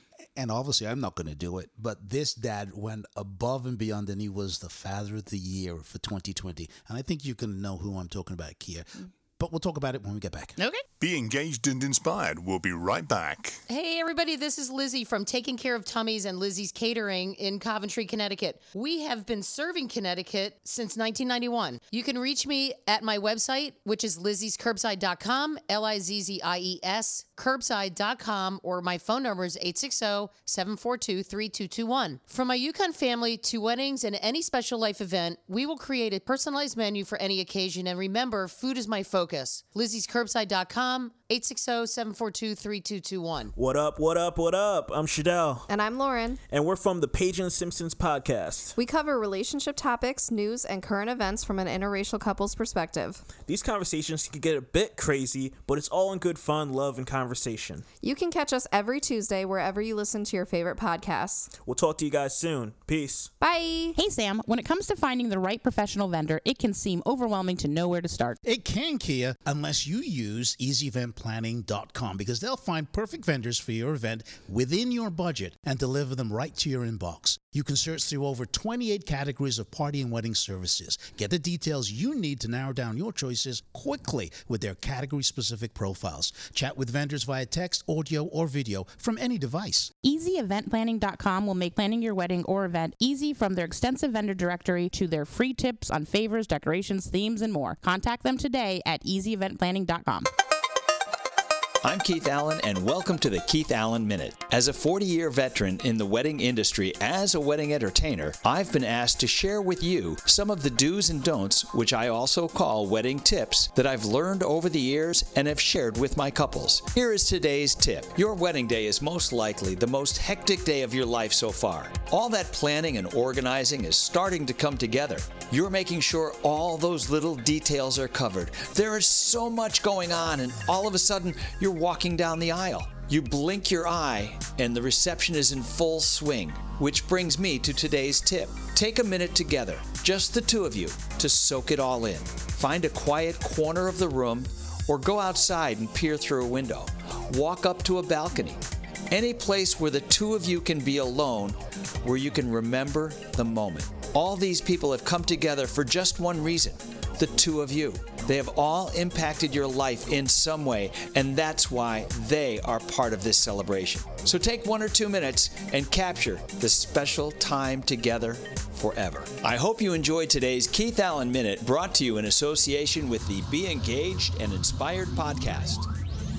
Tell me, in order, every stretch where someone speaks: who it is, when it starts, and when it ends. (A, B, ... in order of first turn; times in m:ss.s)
0:00.4-0:10.6 A
0:10.6-0:10.8 B
0:11.0-0:13.6 C
0:13.7-0:43.5 D
0:43.6-0:45.7 E
0:45.7-0:46.4 F
0:46.5-0:48.8 E
0:48.8-0:53.2 F
0:53.4-0:57.8 E
0:58.0-1:01.5 F
1:01.6-1:03.3 E
1:03.4-1:04.0 F
1:04.0-1:08.4 B
1:08.4-1:29.9 A
1:30.0-1:40.3 B
1:41.8-2:55.9 G